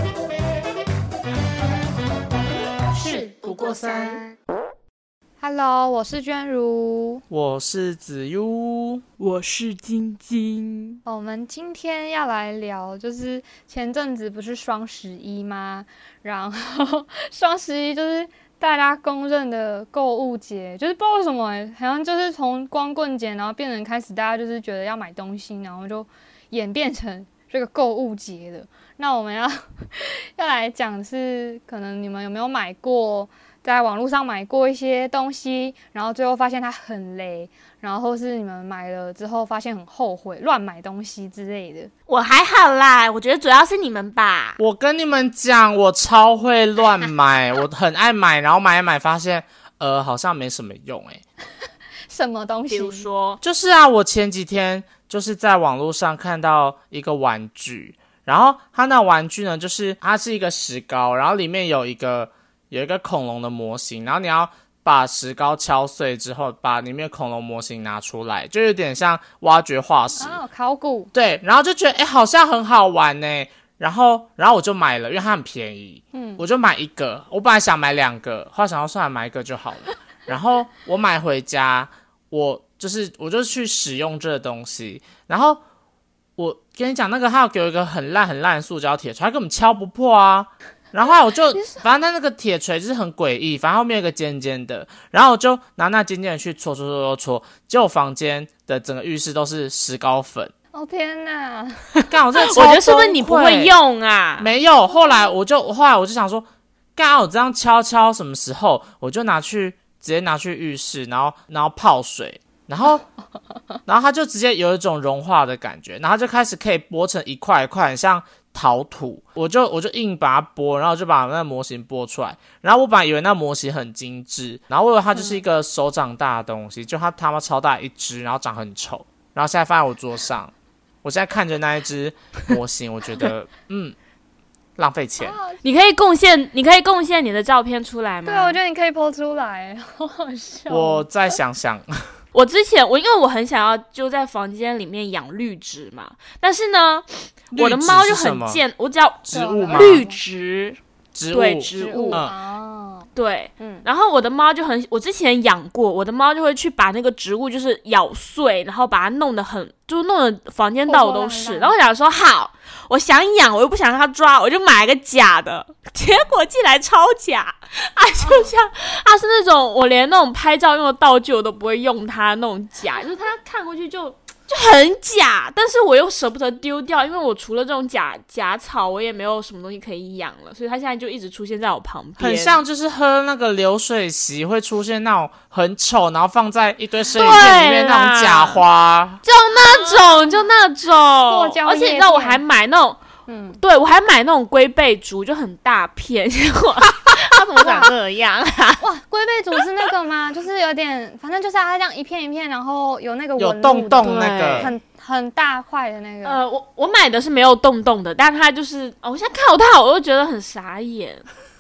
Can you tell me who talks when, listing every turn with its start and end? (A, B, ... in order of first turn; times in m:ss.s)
0:03.0-0:04.2 A
0:03.6-0:04.4 B
0:05.4-0:07.2 B
0:07.3-0:09.0 A
0:09.2-0:11.0 C
0:11.1-0:41.9 B
0:42.1-0:44.6 C
0:44.6-0:51.2 A
0:52.1-0:53.1 B
0:52.7-0:53.4 C
0:53.4-1:10.4 A
1:10.2-1:11.1 B
1:11.1-1:25.6 A
1:16.1-1:16.4 B
1:26.4-1:40.5 A
1:31.6-1:31.8 B
1:40.7-1:41.9 B
1:42.1-1:43.8 A
1:42.5-1:44.5 C
1:44.4-1:53.0 A
1:44.9-1:45.3 B
1:53.9-2:14.0 A
2:14.8-2:15.4 A
2:15.2-2:15.6 B
2:15.6-2:18.6 C
2:18.3-2:21.1 B
2:20.7-2:22.0 A
2:22.3-2:30.8 C
2:27.5-2:28.6 A
2:29.2-2:30.0 A
2:29.3-2:30.2 B
2:31.2-2:32.3 A
2:31.3-2:32.2 C
2:31.8-2:33.8 B
2:33.2-3:02.6 C
2:40.9-2:41.8 B
2:48.2-2:48.5 B
3:02.2-3:09.2 A
3:07.2-3:08.6 C
3:07.2-3:07.5 B
3:09.2-3:13.0 C
3:09.5-3:10.3 B
3:11.2-3:12.4 B
3:13.3-3:13.6 B
3:13.6-3:18.8 C
3:17.6-3:17.9 B
3:18.8-3:26.4 B
3:23.4-3:24.7 A
3:24.0-3:24.7 C
3:26.2-3:31.3 C